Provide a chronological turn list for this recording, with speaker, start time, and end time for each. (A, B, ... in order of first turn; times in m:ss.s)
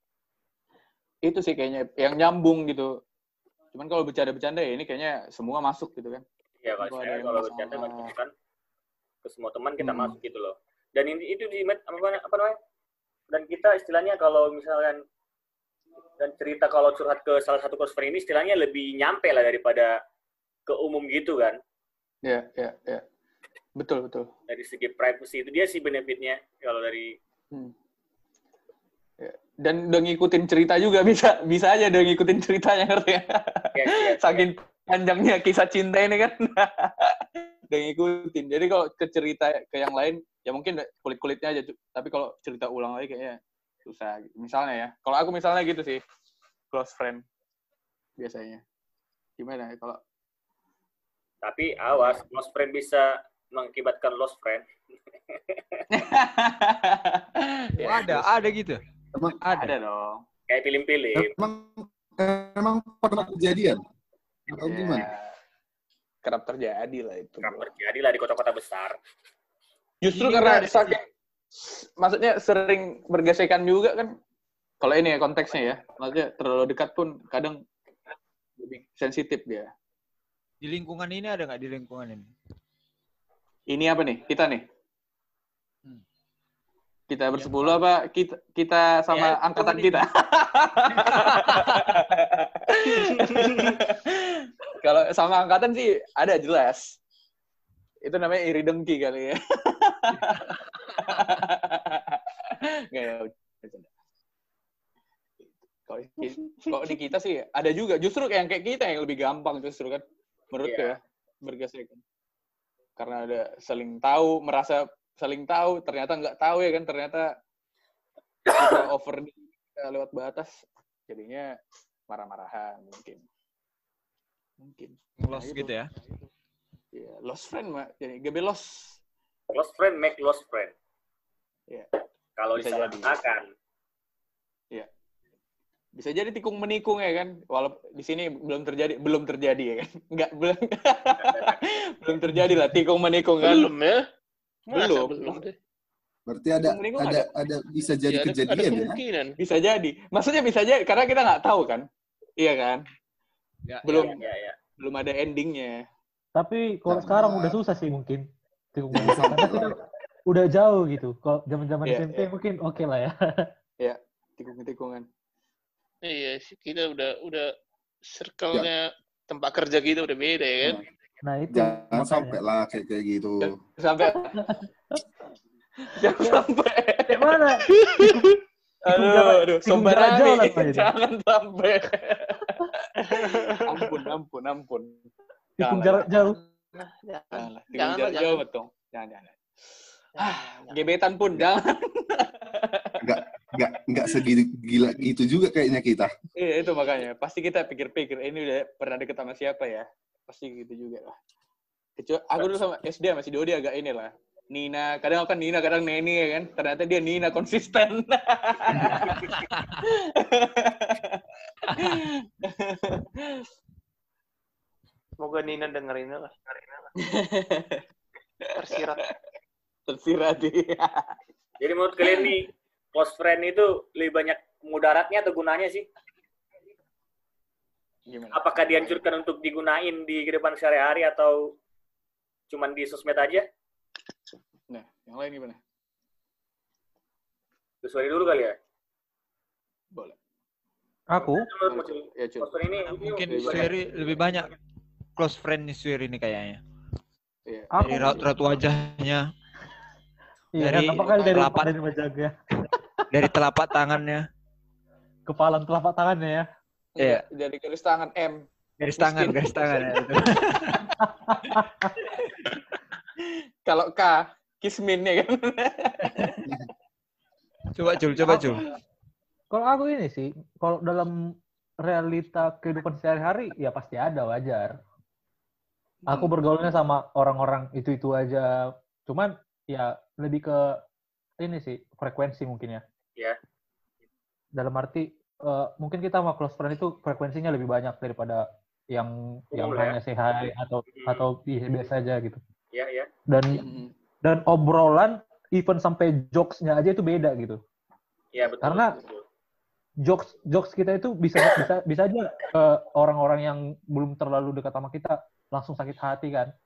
0:01.2-0:02.9 A
0:03.7-0:06.2 A
0:06.6-0:08.3 B
0:06.8-0:08.1 A
0:09.2-0:12.6 B
0:09.8-0:10.2 A
0:13.3-0:15.0 B
0:16.2-0:20.0 B
0:20.7-0:21.6 B
0:22.2-0:23.0 A
0:23.8-0:24.3 A
0:24.5-0:27.2 B
0:29.2-0:46.0 A
0:33.7-0:34.5 B
0:46.7-0:47.2 A
0:48.2-0:48.6 A
0:49.4-0:50.0 A
0:51.4-0:54.6 B
0:55.5-0:55.8 B
0:55.9-0:58.5 A
0:57.8-0:58.8 C
0:59.4-0:59.7 C
0:59.5-1:00.2 A
1:00.5-1:01.3 B
1:01.1-1:03.8 D
1:04.5-1:05.1 D
1:04.6-1:05.3 A
1:06.2-1:07.7 A
1:07.4-1:09.0 B
1:10.0-1:11.0 A
1:10.1-1:11.0 C
1:11.5-1:14.2 A
1:14.8-1:17.6 A
1:18.6-1:19.7 A
1:20.6-1:22.3 C
1:23.7-1:24.6 A
1:27.1-1:37.0 A
1:27.4-1:27.8 C
1:29.1-1:30.0 C
1:30.9-1:32.0 C
1:33.4-1:33.7 C
1:38.0-1:43.9 A
1:40.2-1:41.4 C
1:45.4-1:52.0 A
1:50.6-1:50.9 B
1:53.0-1:57.3 A
1:58.5-2:01.5 A
2:02.1-2:03.2 A
2:04.6-2:06.3 A
2:05.2-2:05.9 C
2:06.9-2:09.0 A
2:09.5-2:10.7 B
2:12.4-2:13.5 B
2:12.5-2:13.2 A
2:15.9-2:23.7 A
2:22.4-2:22.6 E
2:23.4-2:24.0 F
2:24.7-2:25.5 F
2:24.7-2:25.4 A
2:26.3-2:29.0 D
2:26.6-2:27.3 A
2:28.1-2:29.4 F
2:29.4-2:31.8 A
2:32.4-2:32.8 A
2:33.6-2:34.1 C
2:33.8-2:34.2 A
2:33.9-2:34.6 B
2:34.8-2:35.8 A
2:36.4-2:39.7 E
2:36.9-2:37.6 D
2:38.9-2:39.7 D
2:40.3-2:43.5 E
2:41.8-2:42.3 A
2:43.8-2:45.0 A
2:46.0-2:47.5 F
2:48.1-2:50.8 F
2:51.2-2:52.4 E
2:51.5-2:53.5 D
2:53.4-2:54.3 A
2:54.0-2:54.6 E
2:55.8-2:58.3 A
2:56.1-2:56.4 E
2:57.1-2:58.3 E
2:58.8-3:05.1 A
2:58.9-3:00.9 E
3:03.1-3:03.8 F
3:05.6-3:06.4 E
3:05.6-3:06.4 A
3:06.8-3:08.4 F
3:07.3-3:09.4 A
3:10.2-3:10.8 F
3:10.2-3:13.2 A
3:13.0-3:16.1 D
3:16.4-3:21.2 A
3:22.0-3:33.5 A
3:28.9-3:29.7 C
3:31.7-3:31.9 C
3:35.2-3:36.8 F
3:37.0-3:37.8 A
3:38.4-3:39.1 A
3:38.5-3:39.0 F
3:39.9-3:41.2 A
3:41.6-3:45.9 B
3:48.1-3:49.0 A
3:48.3-3:51.5 B
3:52.5-3:53.5 B
3:54.7-3:55.6 A
3:57.8-3:58.6 B
4:01.1-4:01.5 E
4:01.2-4:03.8 B
4:01.6-4:02.6 A
4:02.8-4:04.5 C
4:03.3-4:04.0 A
4:05.2-4:06.6 C
4:07.5-4:07.8 A
4:07.7-4:08.2 E
4:07.8-4:09.3 C
4:10.5-4:12.3 E
4:10.6-4:11.7 C
4:11.0-4:11.4 A
4:13.1-4:14.2 C
4:15.3-4:16.5 E
4:17.0-4:18.5 A
4:17.0-4:17.2 C
4:18.8-4:20.9 C
4:19.0-4:20.1 A
4:21.0-4:21.9 E
4:23.2-4:26.5 A
4:27.7-4:28.7 C
4:28.2-4:28.6 A
4:29.5-4:31.1 E
4:31.8-4:34.8 E
4:36.0-4:36.3 A
4:36.1-4:38.5 E
4:39.0-4:40.6 E
4:41.4-4:42.8 E
4:44.6-4:52.4 E
4:49.5-4:50.0 B
4:51.0-4:51.2 B
4:52.7-4:53.1 B
4:53.3-4:53.6 E
4:53.5-4:53.9 A
4:54.2-4:57.6 E
4:58.3-4:59.2 B
4:58.4-4:59.0 A
4:58.6-4:58.9 E
5:00.0-5:06.5 E